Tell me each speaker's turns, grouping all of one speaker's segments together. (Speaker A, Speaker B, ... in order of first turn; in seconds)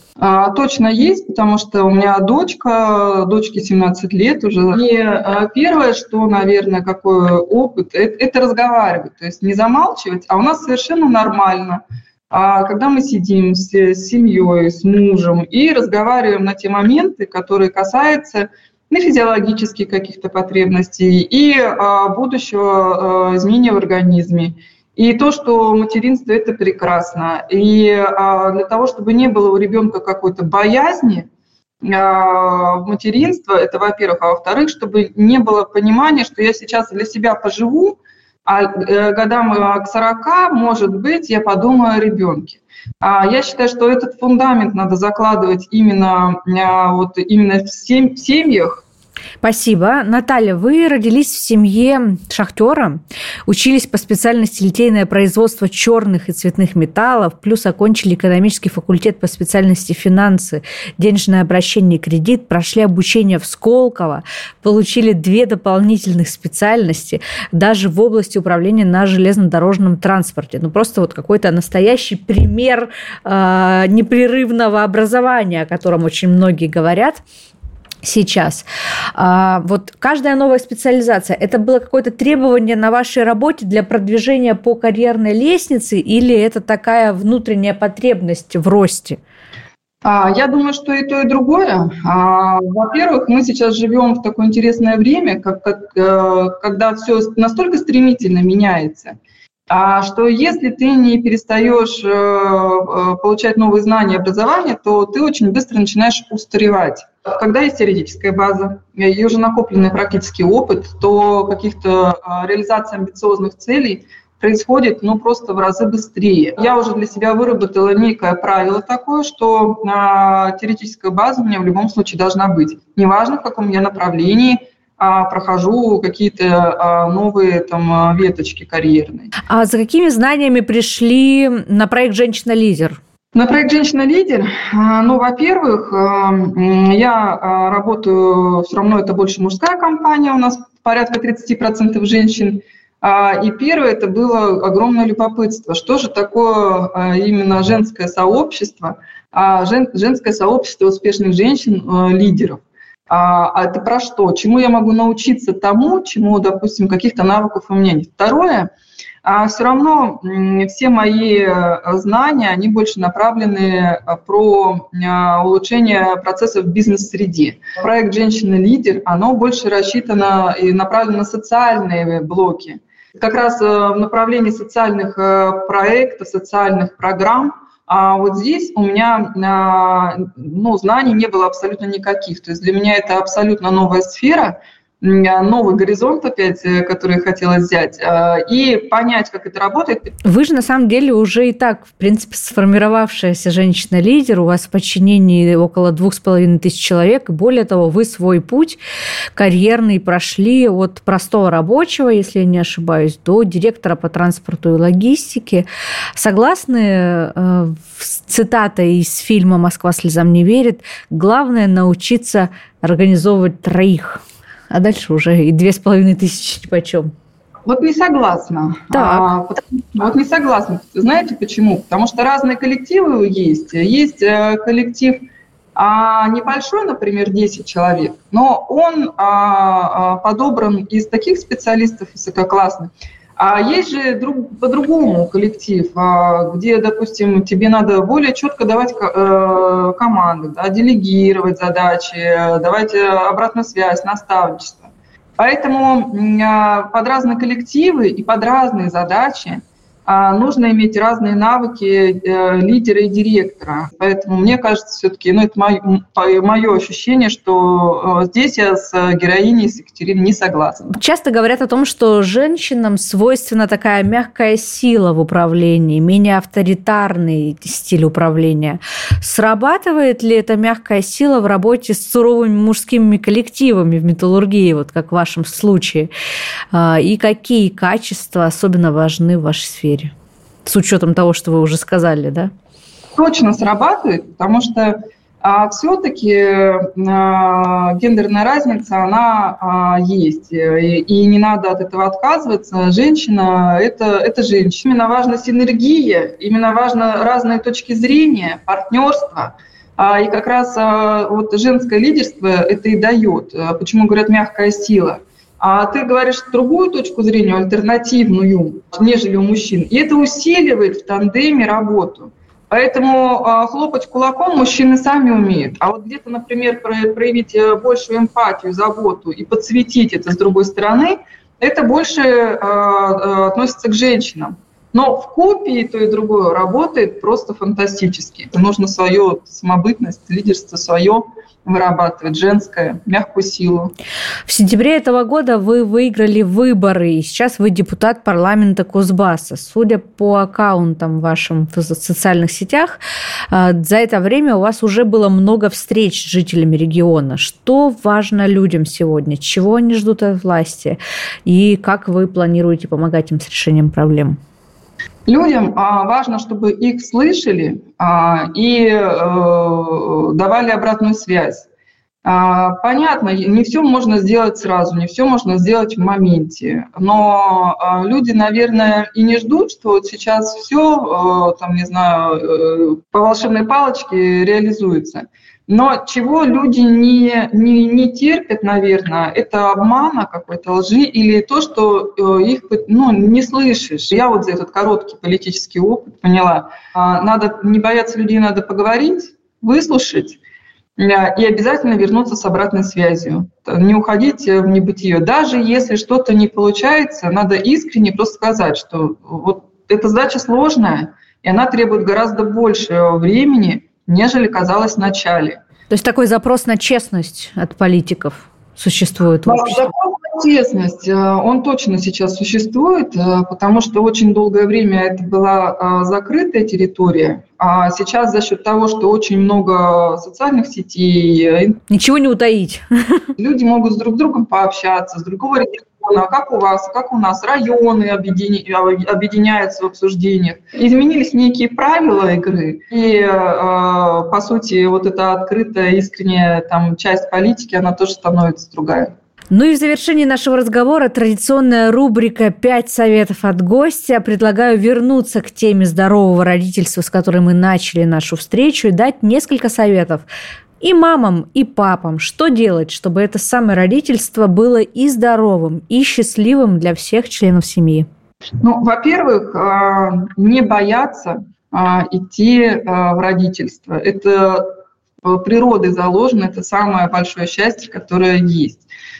Speaker A: 0.2-31.3, 31.8-48.8, 90.0-99.2, 99.7-129.3, 133.3-158.7, 159.2-190.1, 217.7-260.9, 283.1-333.9, 355.3-361.7, 362.2-390.4, 391.0-405.6, 409.5-421.8, 423.4-439.1, 458.6-464.7, 465.2-468.8
Speaker B: 49.4-77.2, 78.0-89.2, 129.5-133.0, 190.2-198.8, 199.3-217.1, 218.9-219.3, 260.9-276.1, 276.7-280.1, 280.6-282.5, 334.5-343.0, 343.5-354.4, 405.9-409.9, 421.9-423.2, 439.5-450.2, 450.8-458.1